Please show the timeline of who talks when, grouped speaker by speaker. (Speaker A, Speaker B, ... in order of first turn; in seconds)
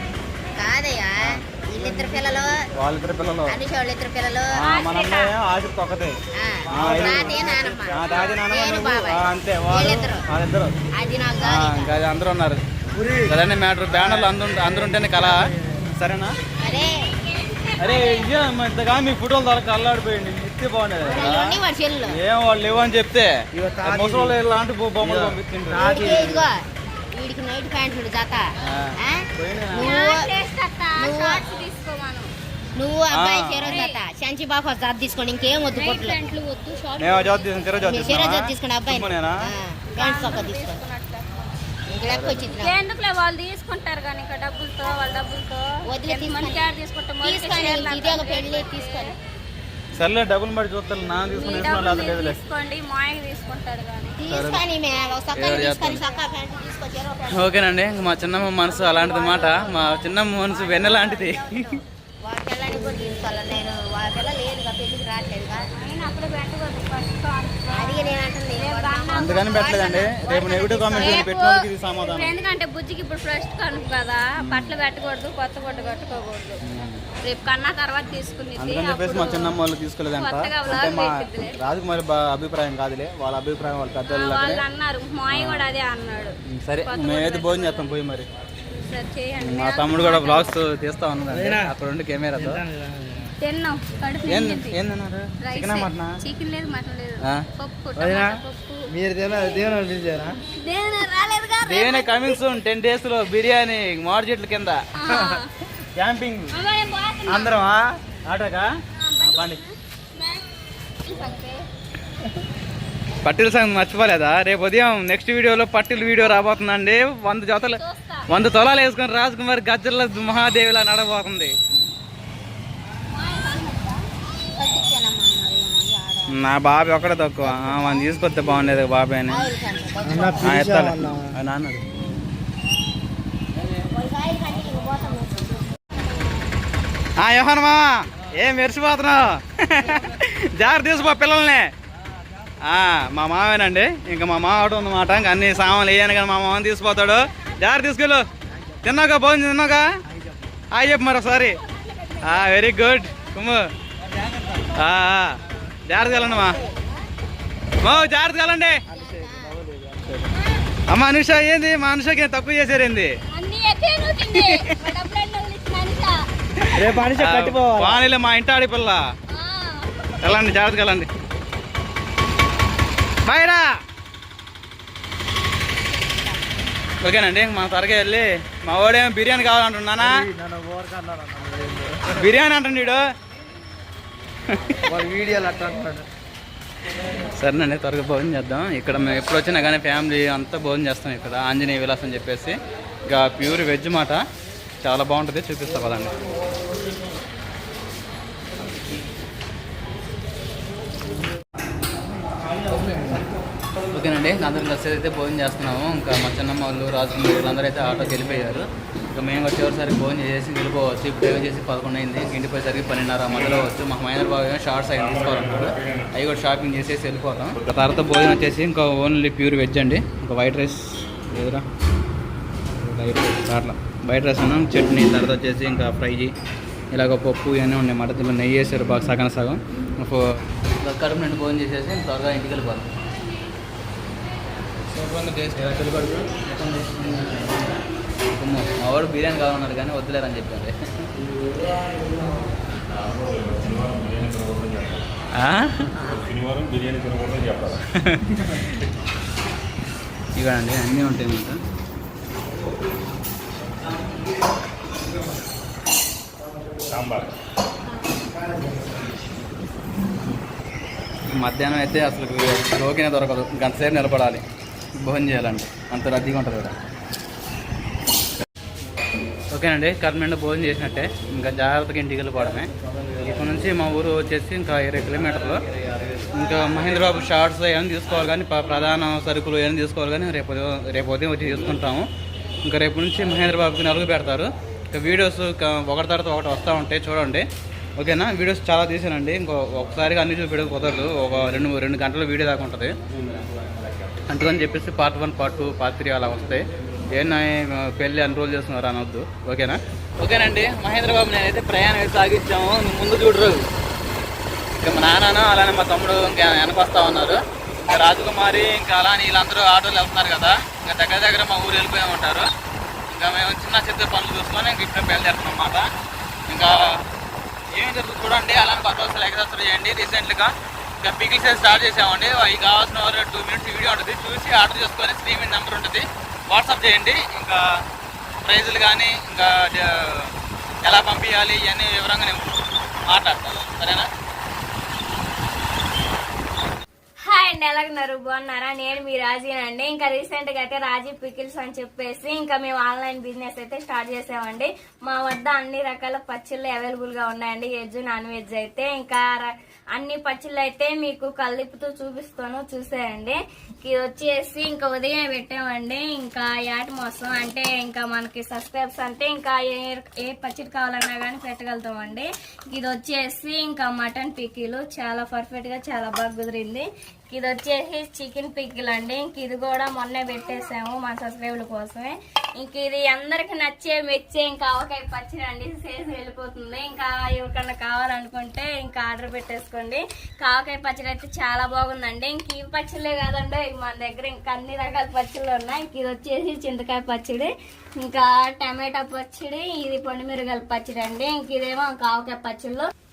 Speaker A: 0.6-2.6, 3.5-4.5, 6.3-10.2, 10.9-11.9, 16.6-17.0, 21.0-22.1, 25.8-26.6, 27.1-30.3, 31.0-31.5, 32.8-36.2, 37.8-40.8, 41.9-42.8, 45.9-46.7, 47.2-49.1, 54.2-57.6, 58.6-65.7, 67.7-69.3, 124.5-126.3, 129.3-130.6, 133.7-135.9, 156.2-156.7, 159.1-159.5
Speaker B: 1.2-2.1, 2.8-3.5, 4.6-6.2, 6.7-10.7, 11.4-12.6, 13.3-15.4, 15.9-16.3, 17.8-26.3, 28.7-29.9, 33.1-33.9, 37.0-39.4, 42.1-42.5, 49.9-52.4, 54.3-54.6, 55.4-56.0, 57.3-61.8, 69.1-72.3, 74.4-74.7, 76.6-77.0, 78.6-84.6, 85.3-85.7, 86.5-88.3, 89.4-92.6, 94.3-96.2, 101.6-104.8, 106.0-106.5, 107.3-109.6, 113.2-121.5, 126.3-129.5, 130.4-131.8, 137.2-141.7, 142.6-148.2, 148.8-149.9, 150.7-151.6, 152.2-153.7, 154.8-156.6, 157.8-158.8, 160.9-163.1, 164.3-164.7, 166.6-169.0, 170.2-171.1, 173.2-173.7, 177.0-180.2, 182.2-183.0, 184.5-184.8, 187.4-194.2, 194.8-196.1, 203.9-221.6, 222.7-226.3, 226.9-230.2, 230.8-232.9, 234.9-237.4, 238.3-240.8, 245.4-246.0, 247.9-248.8, 250.3-251.6, 261.3-264.4, 265.0-266.7, 269.5-275.6, 276.3-282.1, 282.6-287.4, 288.0-292.9, 294.3-303.6, 304.8-312.5, 313.1-315.9, 316.5-316.8, 317.7-327.6, 328.4-330.3, 330.8-332.5, 333.1-334.1
Speaker C: 4.6-5.3, 16.6-18.3, 29.8-32.3, 33.7-34.0, 35.7-37.4, 40.0-41.2, 42.6-49.2, 51.3-54.2, 65.8-76.6, 77.2-79.6, 80.2-81.5, 84.1-87.9, 88.7-90.6, 93.4-94.8, 95.4-98.9, 100.5-102.4, 104.9-105.5, 106.5-107.6, 109.0-110.4, 111.0-111.6, 117.7-118.3, 123.1-124.0, 163.3-166.2, 169.3-170.4, 337.2-387.5, 388.0-392.9
Speaker D: 6.7-8.0, 12.9-13.3, 13.9-15.8, 23.5-24.4, 25.0-26.4, 91.3-91.7, 92.3-93.3, 98.0-100.4, 130.0-131.2, 150.1-150.4, 154.0-154.7, 158.9-160.3, 166.7-168.0, 180.0-182.2, 184.8-186.1, 258.3-258.9
Speaker E: 243.9-245.0, 246.1-247.8, 256.9-257.3